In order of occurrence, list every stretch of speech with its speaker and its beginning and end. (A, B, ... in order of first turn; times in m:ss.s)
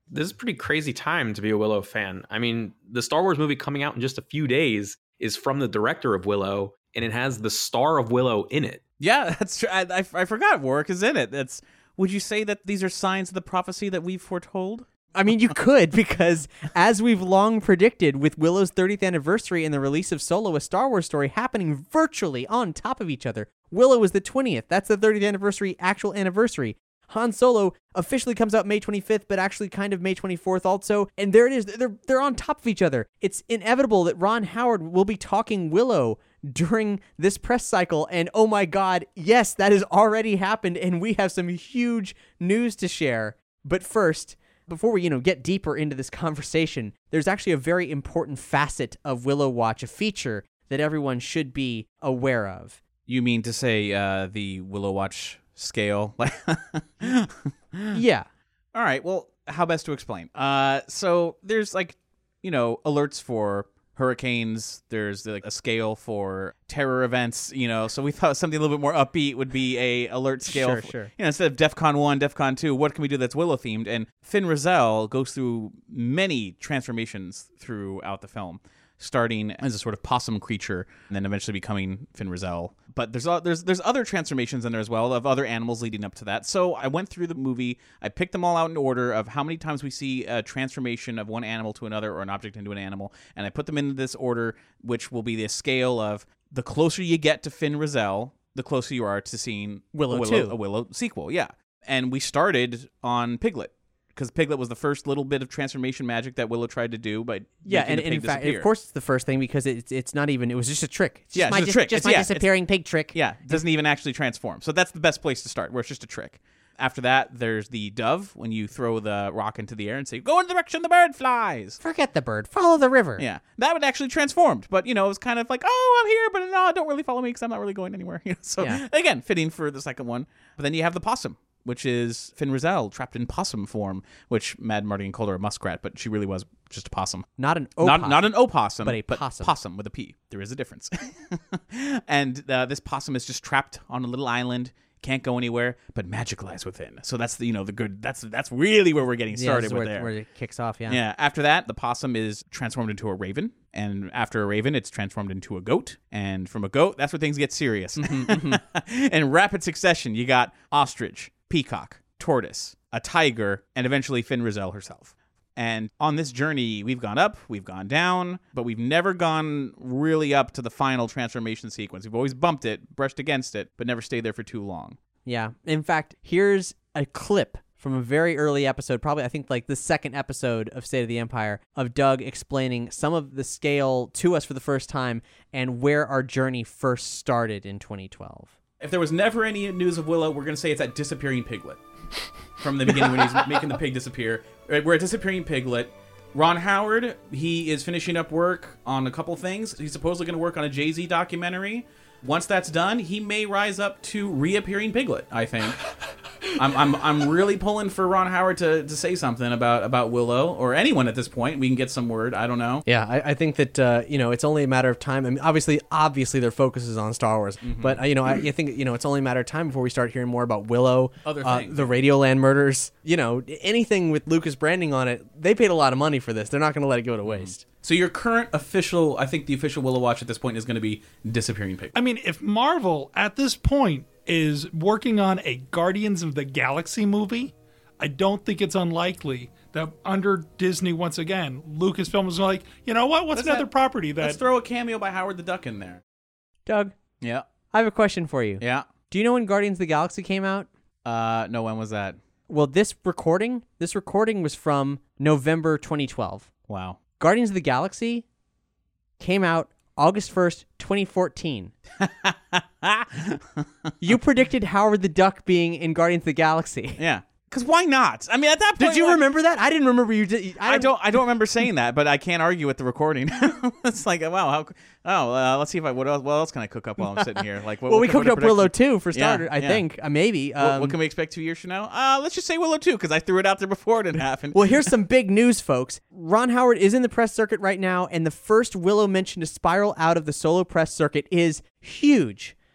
0:00.1-0:08.8 A
0:09.0-0:14.8 B
0:15.1-0:52.8 C
0:53.1-0:58.0 B
0:57.9-0:58.3 C
0:58.7-1:48.7 B
1:10.5-1:11.1 C
1:39.9-1:40.5 C
1:47.6-1:53.6 C
1:51.3-1:52.5 B
1:53.0-2:01.8 B
2:01.8-2:03.2 C
2:03.2-2:17.3 B
2:17.4-2:19.5 C
2:17.8-2:30.1 B
2:29.3-2:31.0 C
2:30.9-2:55.0 B
2:38.0-2:38.6 C
2:55.2-3:08.6 C
3:08.8-3:11.8 B
3:12.6-3:25.8 B
3:26.4-3:32.8 B
3:32.8-3:47.6 C
3:37.6-3:38.0 B
3:41.2-3:41.9 B
3:47.3-3:51.9 B
3:51.9-4:04.4 D
4:03.3-4:06.0 B
4:06.6-4:07.0 C
4:07.2-4:07.5 B
4:07.7-4:10.7 C
4:08.6-4:08.9 B
4:11.0-4:12.2 B
4:12.5-4:16.5 C
4:16.7-4:17.0 B
4:17.2-4:18.2 C
4:19.2-4:21.7 C
4:22.0-4:23.9 B
4:24.0-4:27.0 C
4:27.0-4:29.2 B
4:28.8-4:31.0 C
4:30.6-4:39.8 B
4:37.0-4:41.0 C
4:40.6-4:44.9 B
4:44.5-4:52.6 C